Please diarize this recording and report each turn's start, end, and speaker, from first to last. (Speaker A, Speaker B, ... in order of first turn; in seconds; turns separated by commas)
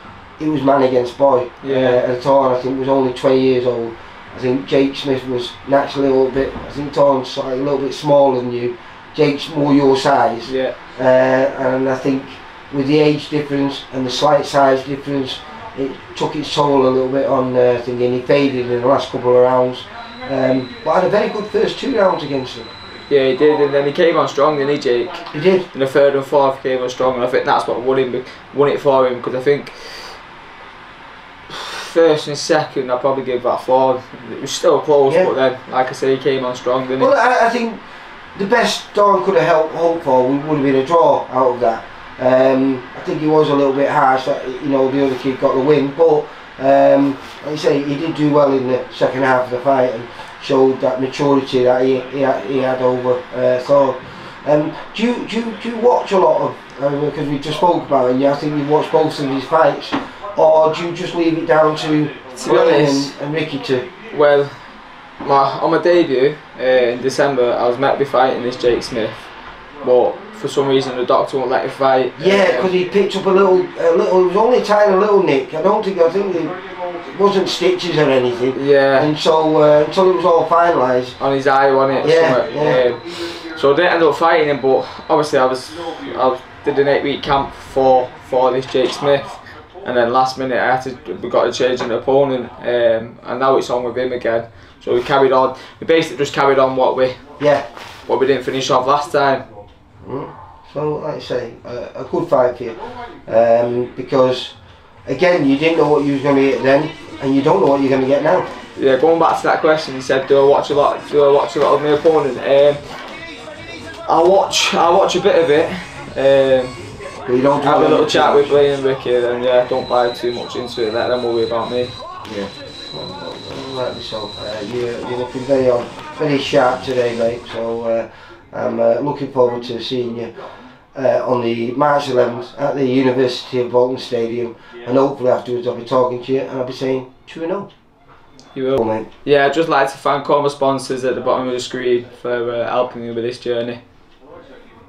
Speaker A: 0.4-22.7, Speaker B: 1.6-2.0, Speaker B: 10.5-10.8, Speaker B: 23.1-30.2, Speaker A: 25.3-25.7, Speaker B: 31.5-37.1, Speaker A: 37.0-37.8, Speaker A: 38.4-63.9, Speaker B: 62.3-63.1, Speaker B: 64.1-64.5, Speaker B: 65.2-72.7, Speaker A: 72.2-81.2, Speaker B: 78.5-79.1, Speaker B: 81.2-97.2, Speaker A: 82.0-82.8, Speaker A: 97.4-97.7, Speaker B: 98.1-99.4, Speaker A: 100.0-104.5, Speaker A: 105.0-108.5, Speaker B: 108.8-112.8, Speaker B: 114.1-116.8, Speaker A: 117.3-118.6, Speaker B: 117.6-122.0, Speaker A: 122.2-130.3, Speaker A: 130.9-137.7, Speaker B: 138.6-143.8, Speaker A: 138.8-139.1